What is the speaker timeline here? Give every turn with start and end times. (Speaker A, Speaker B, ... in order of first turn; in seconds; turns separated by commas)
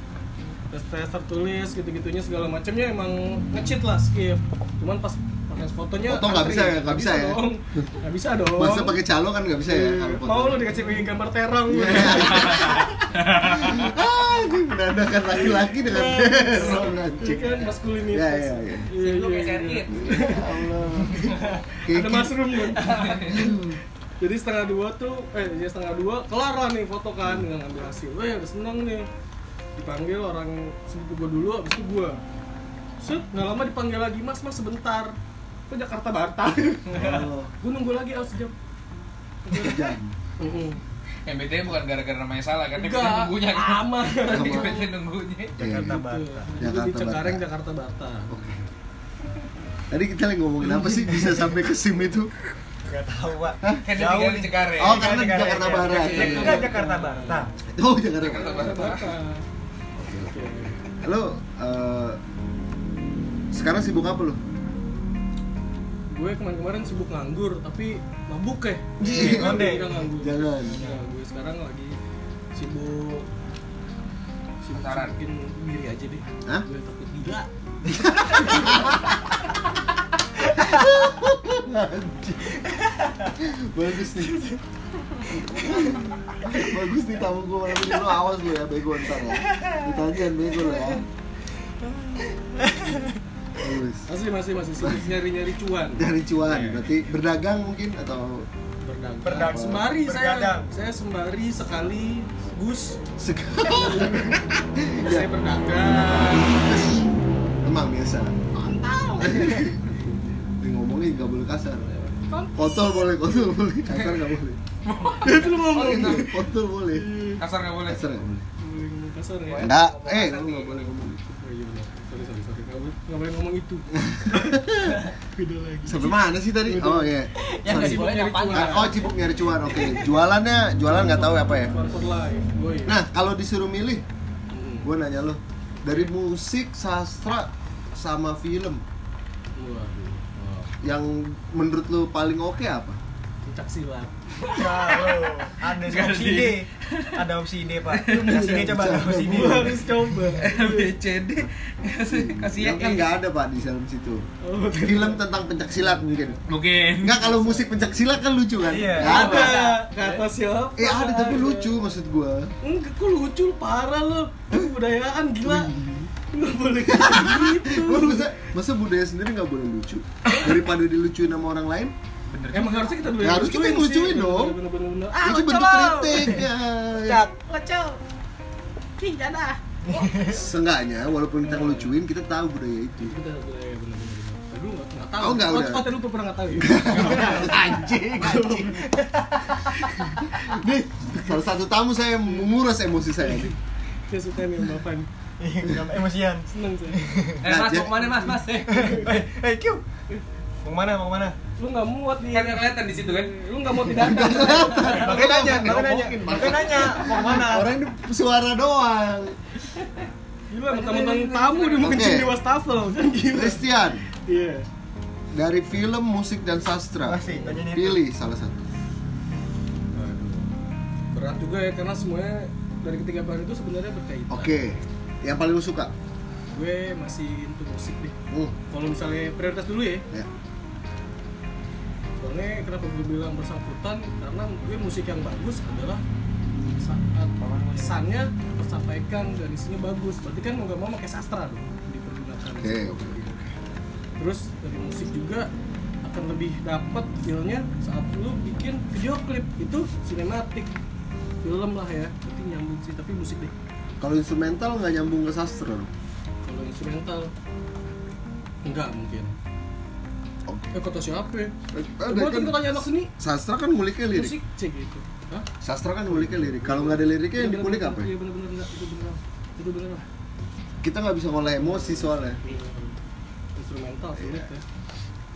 Speaker A: 0.7-9.0, Speaker B: 6.0-7.9, Speaker B: 8.5-10.8, Speaker A: 9.7-12.9, Speaker B: 11.7-18.9, Speaker C: 12.3-13.9, Speaker A: 15.4-20.8, Speaker C: 16.5-16.9, Speaker D: 18.9-20.4, Speaker B: 19.9-22.6, Speaker A: 21.7-29.1, Speaker D: 22.8-23.5, Speaker B: 23.3-23.8, Speaker A: 29.8-32.2, Speaker A: 33.0-35.1, Speaker A: 35.7-38.5, Speaker B: 36.9-37.5, Speaker A: 39.4-40.8, Speaker B: 39.5-40.1, Speaker C: 41.2-45.5, Speaker A: 42.7-44.9, Speaker B: 44.3-44.8, Speaker E: 45.6-46.5, Speaker B: 45.6-46.0, Speaker A: 45.6-48.4, Speaker B: 46.6-47.4, Speaker B: 48.3-48.6, Speaker B: 49.9-52.3, Speaker E: 52.9-57.5, Speaker C: 53.8-55.2, Speaker B: 54.7-56.8, Speaker A: 55.8-57.5, Speaker B: 57.7-59.1, Speaker C: 58.2-59.1, Speaker A: 58.5-59.4, Speaker B: 60.0-60.3, Speaker A: 60.2-60.8, Speaker B: 61.0-62.2, Speaker B: 63.5-64.4, Speaker A: 66.1-71.9, Speaker B: 69.0-70.8, Speaker E: 69.0-70.1, Speaker E: 70.7-71.0, Speaker A: 72.5-73.3, Speaker A: 74.6-77.5, Speaker C: 74.7-75.1, Speaker B: 77.8-79.2, Speaker A: 78.3-78.9, Speaker B: 80.4-82.7, Speaker B: 83.3-84.5, Speaker B: 85.3-91.0, Speaker A: 92.6-93.0, Speaker B: 93.6-94.1, Speaker A: 94.0-96.1, Speaker B: 96.0-98.5, Speaker C: 96.5-96.9, Speaker A: 98.8-103.0, Speaker E: 99.2-100.7, Speaker B: 99.4-99.8, Speaker B: 103.2-105.3, Speaker A: 103.5-104.3, Speaker A: 105.0-106.7, Speaker B: 105.8-107.1, Speaker B: 107.6-108.4, Speaker D: 108.5-109.6, Speaker B: 109.2-109.8, Speaker A: 109.4-110.2, Speaker B: 110.6-111.9, Speaker D: 111.9-112.2, Speaker A: 112.3-113.5, Speaker B: 112.5-114.6, Speaker C: 113.9-114.2, Speaker C: 114.8-116.3, Speaker A: 115.2-117.4, Speaker B: 115.4-117.1, Speaker C: 117.4-118.1, Speaker B: 117.8-118.5, Speaker A: 118.6-129.1, Speaker D: 119.5-120.6, Speaker B: 119.6-121.3, Speaker B: 123.9-125.0, Speaker B: 125.8-131.8, Speaker D: 127.4-129.1, Speaker D: 129.7-130.1, Speaker A: 130.8-133.0, Speaker B: 132.8-134.0, Speaker A: 134.5-134.9, Speaker B: 134.8-138.8, Speaker A: 139.6-140.7, Speaker B: 140.8-143.0, Speaker A: 143.4-144.6, Speaker C: 144.4-147.2, Speaker E: 144.5-149.8, Speaker C: 147.8-148.5, Speaker A: 148.1-150.9, Speaker B: 148.2-150.2, Speaker C: 150.4-153.1, Speaker B: 152.1-156.4, Speaker A: 154.4-155.2, Speaker C: 156.5-157.3, Speaker B: 157.0-159.6, Speaker E: 158.6-159.6, Speaker A: 158.9-161.7, Speaker C: 159.0-159.5, Speaker D: 159.2-160.2, Speaker B: 160.8-162.5, Speaker A: 162.6-168.3, Speaker B: 165.4-166.1, Speaker B: 166.8-171.9, Speaker C: 172.3-172.9, Speaker A: 172.5-176.1, Speaker B: 173.2-174.6, Speaker B: 175.2-177.2, Speaker D: 175.2-176.3, Speaker D: 177.3-178.0, Speaker D: 179.0-180.1, Speaker E: 179.8-180.4, Speaker B: 180.3-183.1, Speaker A: 181.4-181.9, Speaker A: 183.0-188.9, Speaker B: 185.2-186.0, Speaker B: 186.5-188.8, Speaker E: 188.8-189.6, Speaker B: 189.6-193.5, Speaker A: 189.9-190.2, Speaker A: 193.2-193.5, Speaker A: 194.1-195.1, Speaker E: 195.4-197.4, Speaker A: 196.5-197.0, Speaker B: 197.4-198.2, Speaker D: 197.4-198.9, Speaker A: 198.7-199.2, Speaker E: 198.7-199.8, Speaker E: 200.6-201.4, Speaker A: 201.6-205.4, Speaker C: 202.3-203.3, Speaker B: 203.8-209.4, Speaker E: 204.8-207.7, Speaker A: 210.5-213.6, Speaker C: 210.7-211.8, Speaker B: 211.8-212.3, Speaker B: 213.3-214.1, Speaker A: 214.1-214.7, Speaker B: 215.3-218.6, Speaker E: 217.0-218.0, Speaker A: 217.2-217.6, Speaker A: 219.9-220.5, Speaker A: 221.1-224.6, Speaker B: 224.3-225.9, Speaker A: 226.5-228.1, Speaker A: 228.7-230.0, Speaker A: 232.2-236.0, Speaker A: 236.8-243.3, Speaker B: 237.4-238.0, Speaker B: 242.6-243.5, Speaker A: 244.2-245.5, Speaker A: 246.0-250.7, Speaker A: 251.4-253.5, Speaker B: 254.0-255.9, Speaker A: 256.4-257.3, Speaker A: 258.6-259.3, Speaker B: 260.5-260.7, Speaker A: 260.7-261.5, Speaker B: 261.7-264.3, Speaker A: 262.1-263.1, Speaker A: 264.1-265.5, Speaker B: 265.6-268.1, Speaker A: 266.1-270.0, Speaker B: 270.8-272.4, Speaker A: 271.5-272.9, Speaker A: 273.6-274.6, Speaker B: 274.2-274.5